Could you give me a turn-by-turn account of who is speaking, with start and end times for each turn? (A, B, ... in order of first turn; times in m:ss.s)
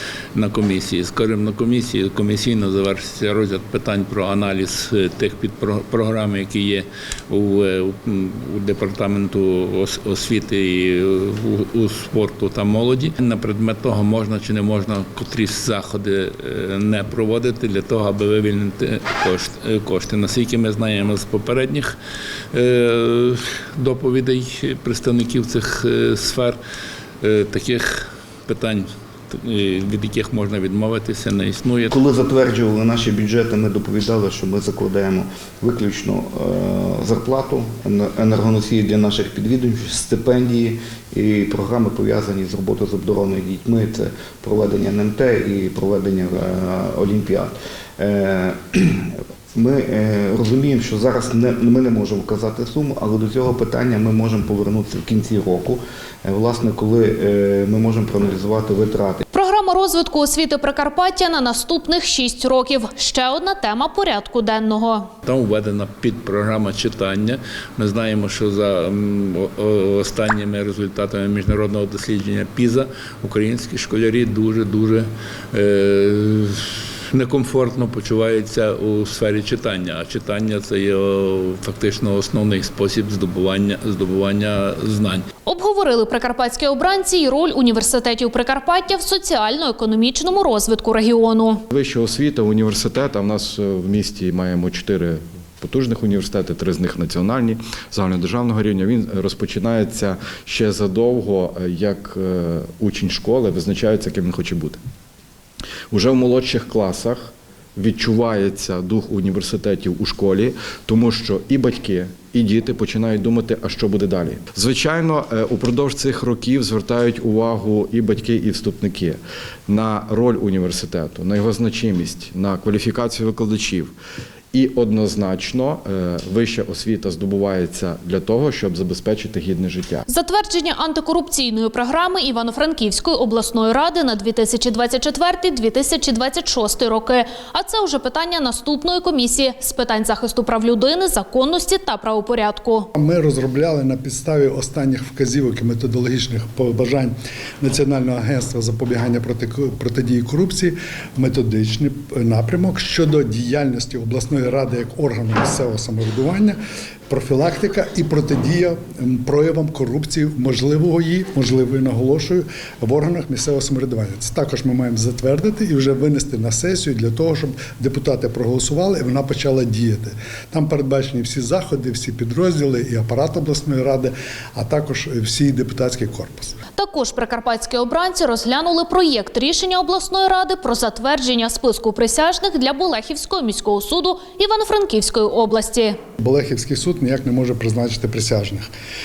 0:00.3-0:22.0 A
0:22.5-0:26.6 A
0:27.2-0:31.9 A
0:31.9-0:59.2 B
0:59.3-1:05.1 C
1:05.2-1:25.2 A
1:25.4-1:31.6 C
1:31.7-1:44.8 D
1:45.9-2:03.9 D
2:04.5-2:10.0 D
2:10.1-2:22.9 C
2:23.0-2:36.6 E
2:37.1-2:56.6 E
2:56.8-3:06.0 C
3:06.2-3:08.7 E